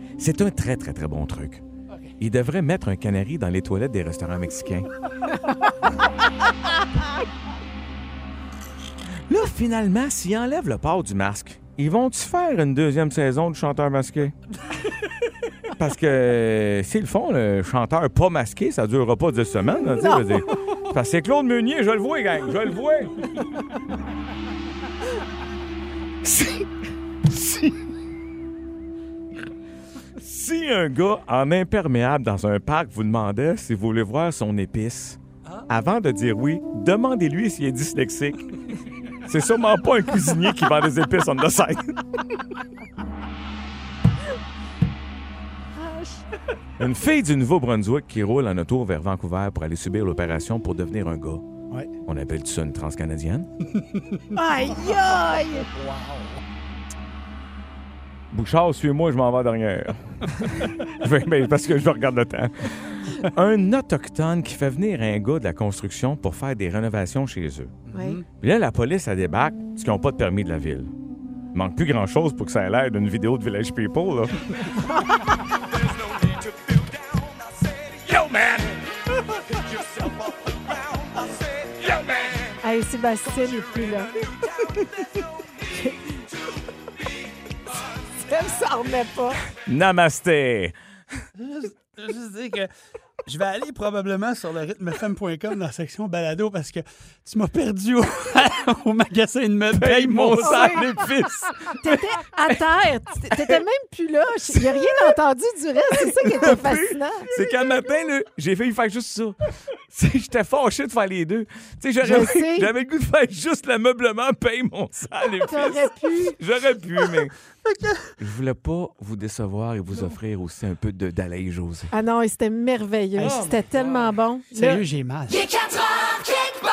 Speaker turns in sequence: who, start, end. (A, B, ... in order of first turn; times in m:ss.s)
0:00.2-0:01.6 A
0:02.2-0:04.9 A
0:09.3-0:14.3 A
0:15.7-0:23.2 A
0:20.0-0:20.4 B
0:26.2-0:26.6 A
0:27.2-0:27.7 A
0:30.2-0:38.5 A
0:39.2-0:42.0 A
0:45.8-0:46.2 B
0:46.8-0:51.5 A
0:52.1-0:53.5 A
0:53.7-0:56.4 C
0:54.3-0:55.7 B
0:58.3-1:07.7 A
1:07.9-1:08.2 C
1:07.9-1:08.2 B
1:08.4-1:10.9 A
1:11.5-1:14.7 A
1:15.7-1:18.8 A
1:19.5-1:22.5 A
1:22.6-1:24.2 B
1:23.8-1:24.9 A
1:25.7-1:26.0 B
1:28.2-1:29.4 B
1:29.6-1:30.7 A
1:31.4-1:32.7 C
1:33.2-1:40.8 C
1:39.7-1:41.8 A
1:40.4-1:40.9 B
1:41.7-1:47.3 B
1:43.3-1:43.6 A
1:44.5-1:45.1 A
1:45.9-1:49.4 A
1:49.9-1:57.3 A
1:52.0-1:52.7 B
1:55.5-1:56.4 B
1:58.2-2:01.9 A
2:01.9-2:04.8 B
2:03.2-2:03.6 C
2:04.5-2:05.5 C